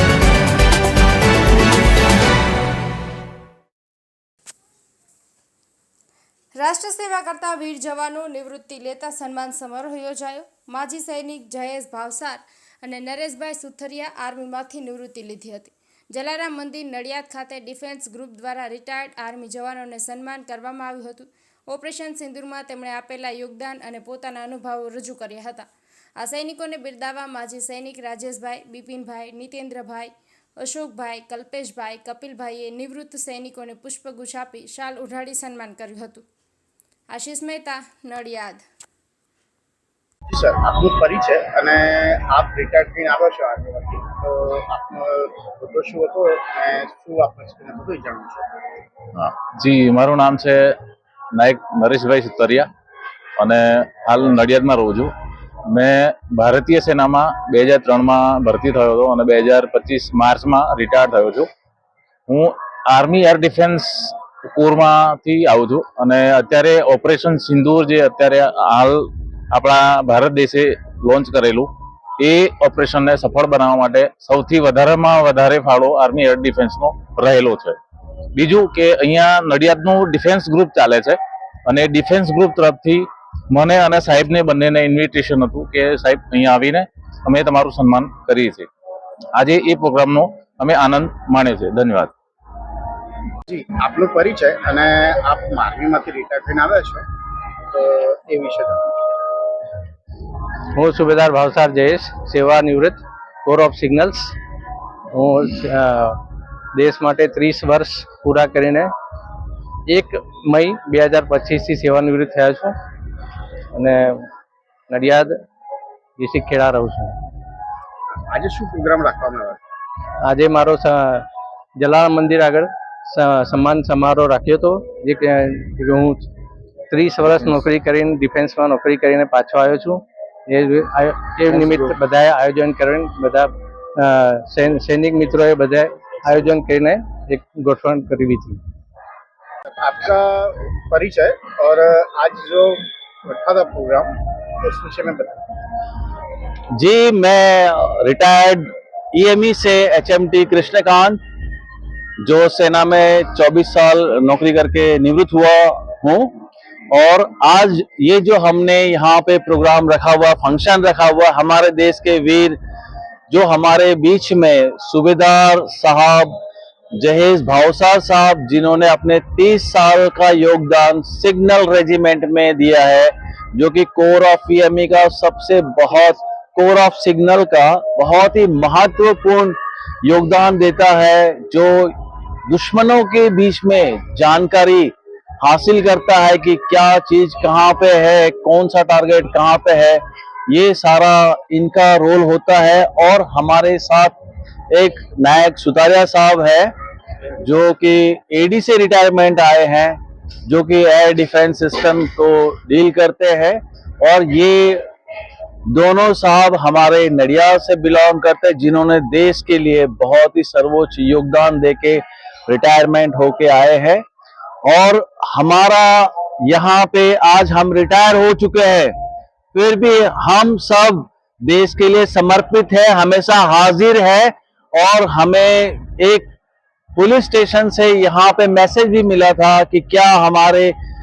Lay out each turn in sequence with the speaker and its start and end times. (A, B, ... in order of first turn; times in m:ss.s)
0:06.6-0:36.2 A
0:37.1-0:38.6 A
0:40.3-0:48.6 B
0:49.1-0:50.8 C
0:51.4-0:52.7 C
0:53.4-0:55.1 C
0:55.7-1:01.5 C
1:02.3-1:17.8 C
1:18.3-1:28.7 C
1:29.4-1:32.1 C
1:33.5-1:37.0 B
1:37.7-1:39.1 B
1:40.7-1:44.3 D
1:45.1-1:46.2 D
1:46.8-1:48.9 D
1:49.9-1:52.7 D
1:53.7-1:54.3 D
1:54.9-1:55.3 D
1:56.2-1:57.1 D
1:58.3-1:59.6 B
2:00.2-2:01.2 D
2:01.8-2:06.3 D
2:06.9-2:18.6 D
2:19.8-2:25.4 B
2:26.7-2:31.2 E
2:32.2-2:42.6 E
2:43.3-2:46.3 E
2:47.0-3:01.9 E
3:02.5-3:14.1 E
3:14.7-3:16.7 E
3:17.4-3:24.8 E
3:25.7-3:34.0 E
3:34.6-3:38.9 E
3:39.5-3:46.3 E
3:47.0-3:50.7 E